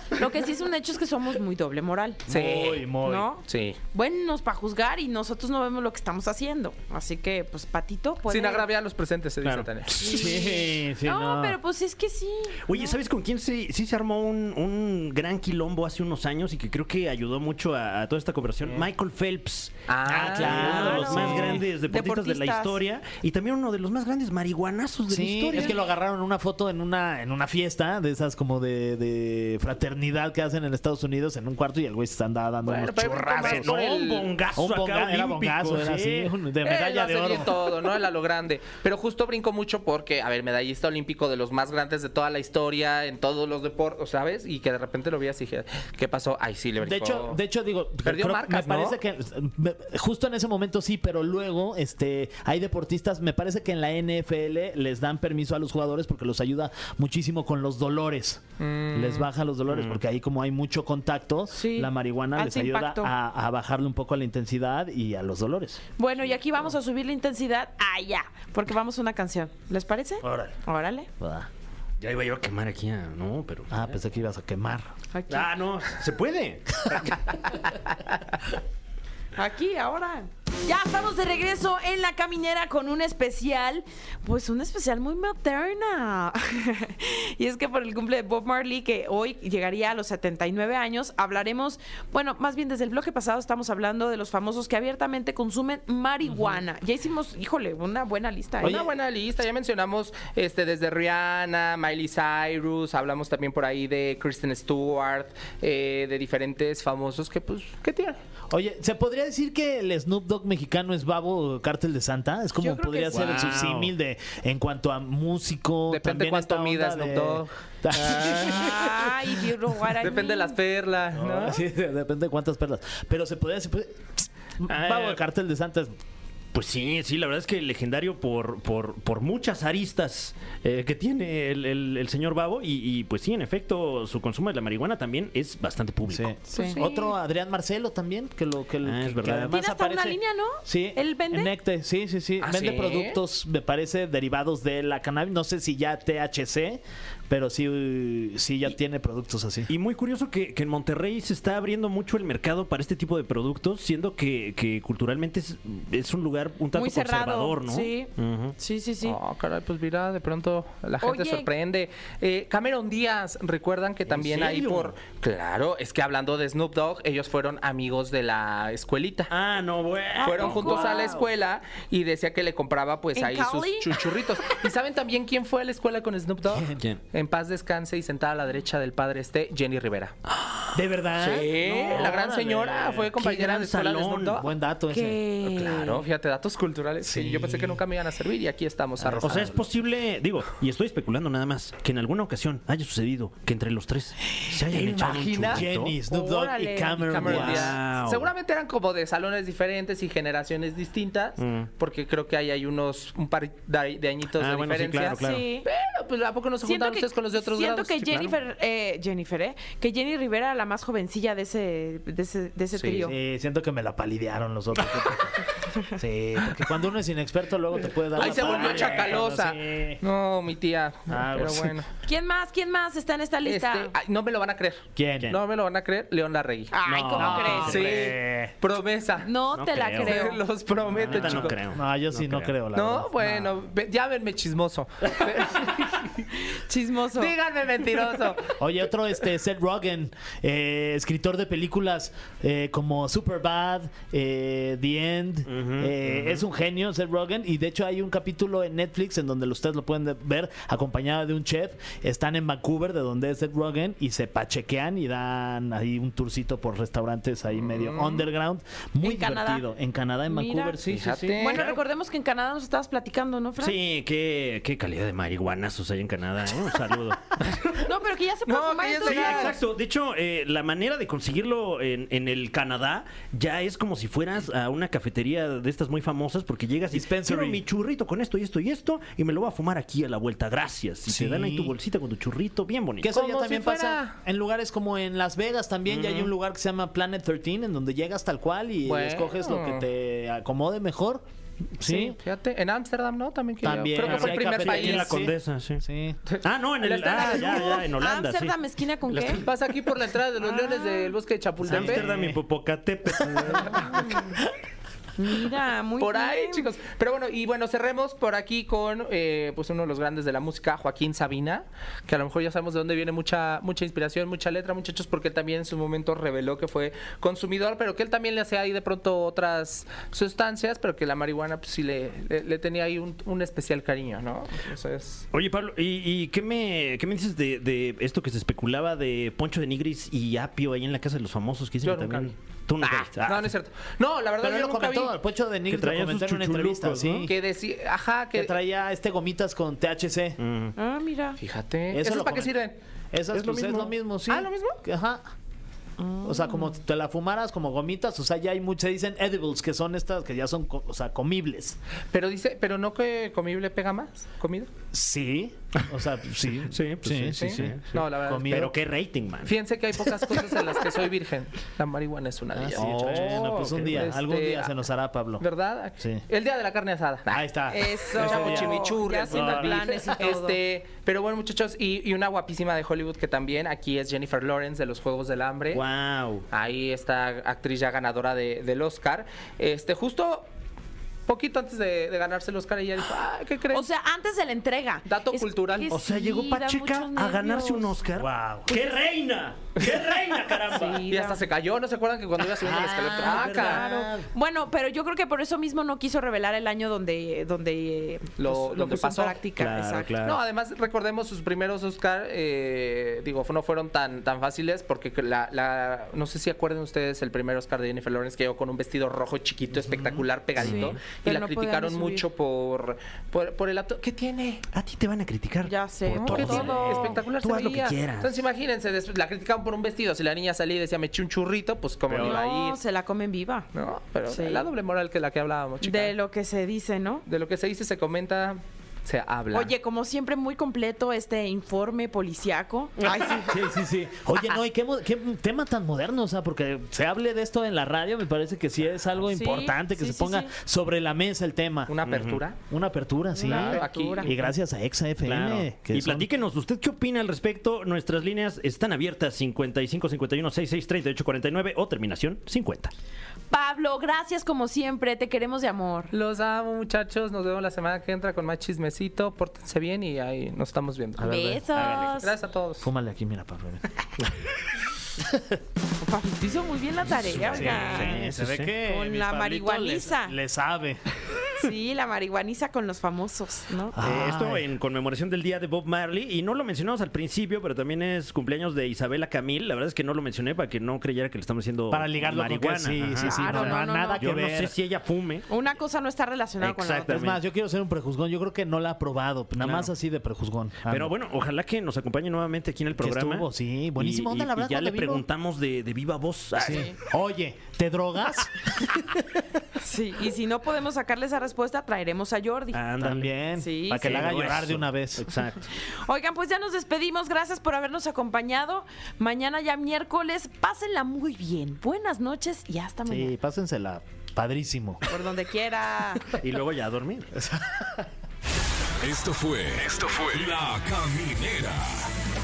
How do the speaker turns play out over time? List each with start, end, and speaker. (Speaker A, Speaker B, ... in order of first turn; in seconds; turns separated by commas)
Speaker A: 0.1-2.3, Speaker B: 2.3-3.3, Speaker C: 2.3-3.8, Speaker A: 3.0-8.7, Speaker C: 8.3-10.1, Speaker D: 9.4-10.6, Speaker A: 10.0-13.0, Speaker B: 10.0-11.6, Speaker D: 12.7-25.8, Speaker C: 19.9-21.6, Speaker B: 20.1-21.6, Speaker A: 20.6-22.8, Speaker B: 25.1-33.8, Speaker C: 32.6-34.3, Speaker D: 33.4-36.3, Speaker B: 34.5-37.6, Speaker C: 36.6-47.4, Speaker B: 46.8-65.8, Speaker C: 48.0-49.0, Speaker C: 58.6-59.3, Speaker D: 59.7-60.0, Speaker A: 61.5-63.1, Speaker A: 66.0-71.1, Speaker B: 70.2-70.6, Speaker B: 71.2-71.5, Speaker D: 72.0-73.9, Speaker B: 73.7-74.9, Speaker A: 75.1-75.5, Speaker D: 75.3-77.4, Speaker A: 79.4-98.8, Speaker C: 98.6-108.2, Speaker B: 98.6-98.9, Speaker B: 108.5-119.0, Speaker A: 112.6-113.5, Speaker C: 113.1-113.6, Speaker D: 113.1-113.9, Speaker C: 115.9-119.1, Speaker A: 118.4-120.6, Speaker C: 120.0-121.6, Speaker B: 121.1-125.9, Speaker D: 124.7-125.2, Speaker D: 126.5-136.4, Speaker B: 136.1-149.7, Speaker A: 136.5-137.1, Speaker D: 138.8-139.6, Speaker A: 139.5-141.5, Speaker C: 142.4-143.2, Speaker D: 149.7-158.6, Speaker A: 156.7-159.2, Speaker C: 159.0-169.3, Speaker A: 161.0-161.5, Speaker D: 164.1-164.9, Speaker D: 169.3-171.2, Speaker A: 170.2-171.2, Speaker C: 170.2-180.2, Speaker A: 173.2-173.9, Speaker B: 176.5-176.8, Speaker B: 180.7-183.1, Speaker C: 181.2-184.5, Speaker D: 181.8-182.2, Speaker D: 183.0-184.5, Speaker B: 184.3-185.2, Speaker A: 184.9-186.1, Speaker C: 185.4-189.6, Speaker B: 187.0-187.8, Speaker B: 189.0-189.6, Speaker D: 189.2-195.9, Speaker B: 194.8-197.8, Speaker C: 194.9-195.6, Speaker A: 196.1-197.2, Speaker C: 197.0-208.3, Speaker D: 197.1-198.3, Speaker D: 201.4-201.7, Speaker D: 204.4-205.5, Speaker A: 205.1-205.7, Speaker A: 206.6-213.2, Speaker C: 212.7-213.1, Speaker B: 213.0-220.0, Speaker C: 218.2-221.9, Speaker D: 218.2-219.2, Speaker B: 221.1-221.8, Speaker A: 222.0-223.9, Speaker C: 223.4-226.8, Speaker B: 225.0-225.4, Speaker A: 226.7-227.9, Speaker D: 226.8-228.1, Speaker B: 227.1-228.5, Speaker C: 227.6-229.3, Speaker A: 229.2-230.4, Speaker D: 229.5-230.2, Speaker C: 230.0-231.6, Speaker D: 230.9-232.5, Speaker B: 231.0-233.6, Speaker C: 232.7-236.3, Speaker A: 236.5-237.3, Speaker C: 237.2-238.6, Speaker B: 238.6-261.7, Speaker D: 245.5-246.4, Speaker C: 257.6-258.3, Speaker A: 259.0-259.6, Speaker A: 260.3-260.8, Speaker C: 260.8-261.8, Speaker A: 261.4-263.8, Speaker D: 263.6-267.4, Speaker A: 267.8-269.6, Speaker C: 268.5-269.6, Speaker D: 269.1-283.1, Speaker B: 276.9-277.6, Speaker B: 281.1-281.8, Speaker B: 283.0-291.2, Speaker C: 283.1-284.1, Speaker D: 285.9-286.3, Speaker C: 288.9-289.9, Speaker B: 291.8-292.2, Speaker C: 291.9-295.3, Speaker B: 293.6-296.2, Speaker D: 294.0-295.8, Speaker C: 296.3-297.9, Speaker D: 296.4-298.6, Speaker A: 297.1-299.5, Speaker C: 299.1-302.1, Speaker A: 300.4-301.1, Speaker B: 301.6-302.4, Speaker D: 301.6-304.0, Speaker C: 303.5-304.1, Speaker A: 303.9-304.4, Speaker A: 305.2-306.7, Speaker C: 306.0-325.2, Speaker D: 325.3-333.5, Speaker C: 331.8-335.1, Speaker B: 334.4-337.4, Speaker D: 335.7-337.3, Speaker C: 337.3-338.5, Speaker B: 338.4-340.4, Speaker D: 340.4-340.7, Speaker A: 340.8-341.4, Speaker C: 341.4-342.8, Speaker B: 341.9-342.6, Speaker B: 343.1-345.2, Speaker D: 343.3-343.9, Speaker C: 344.3-344.8, Speaker A: 346.0-346.5, Speaker B: 346.2-351.8, Speaker C: 352.1-354.7, Speaker B: 354.9-358.8, Speaker D: 356.7-359.6, Speaker C: 357.4-358.5, Speaker C: 359.5-364.7, Speaker B: 362.6-365.4, Speaker D: 362.7-364.1, Speaker C: 365.4-367.4, Speaker B: 367.3-370.4, Speaker A: 367.7-370.6, Speaker C: 368.1-375.8, Speaker D: 375.7-376.5, Speaker C: 376.5-380.5, Speaker C: 381.3-383.9, Speaker A: 383.7-387.9, Speaker C: 385.1-386.0, Speaker D: 385.9-391.1, Speaker B: 388.2-388.7, Speaker A: 390.7-391.4, Speaker C: 391.0-393.8, Speaker B: 392.6-394.3, Speaker A: 393.2-400.2, Speaker D: 393.2-393.8, Speaker C: 398.4-399.4, Speaker D: 399.6-400.4, Speaker C: 400.2-414.6, Speaker B: 409.7-410.2, Speaker A: 410.6-412.2, Speaker D: 410.6-410.9, Speaker D: 414.7-418.4, Speaker A: 415.6-417.7, Speaker C: 416.2-422.8, Speaker D: 422.1-422.4, Speaker A: 422.1-423.7, Speaker C: 423.7-426.1, Speaker A: 424.3-424.7, Speaker A: 425.8-427.2, Speaker C: 427.3-429.7, Speaker A: 429.5-433.6, Speaker B: 433.5-441.9, Speaker A: 439.3-440.5, Speaker C: 441.9-442.6, Speaker D: 442.0-442.4, Speaker B: 442.7-446.3, Speaker A: 443.4-444.4, Speaker C: 443.5-444.4, Speaker D: 445.2-452.9, Speaker A: 453.5-456.1, Speaker C: 456.1-462.9, Speaker B: 461.2-461.8, Speaker A: 461.2-462.3, Speaker B: 462.8-464.1, Speaker A: 466.0-468.2, Speaker D: 467.1-468.7, Speaker B: 467.5-471.0, Speaker A: 468.8-470.4, Speaker A: 471.6-474.0, Speaker B: 473.9-474.7, Speaker D: 474.0-485.5, Speaker B: 481.9-484.7, Speaker A: 483.2-484.3, Speaker A: 485.5-487.3, Speaker D: 486.6-487.4, Speaker B: 487.1-491.1, Speaker D: 489.6-489.9, Speaker D: 490.9-496.9, Speaker B: 493.0-495.2, Speaker B: 496.6-499.5, Speaker A: 496.7-496.9, Speaker A: 499.8-502.9, Speaker D: 502.7-503.3, Speaker B: 503.0-505.3, Speaker A: 503.6-504.2, Speaker D: 504.0-505.6, Speaker A: 506.0-513.3, Speaker B: 513.1-515.0, Speaker A: 515.1-516.4, Speaker D: 516.3-517.3, Speaker B: 517.4-518.0, Speaker E: 519.0-522.1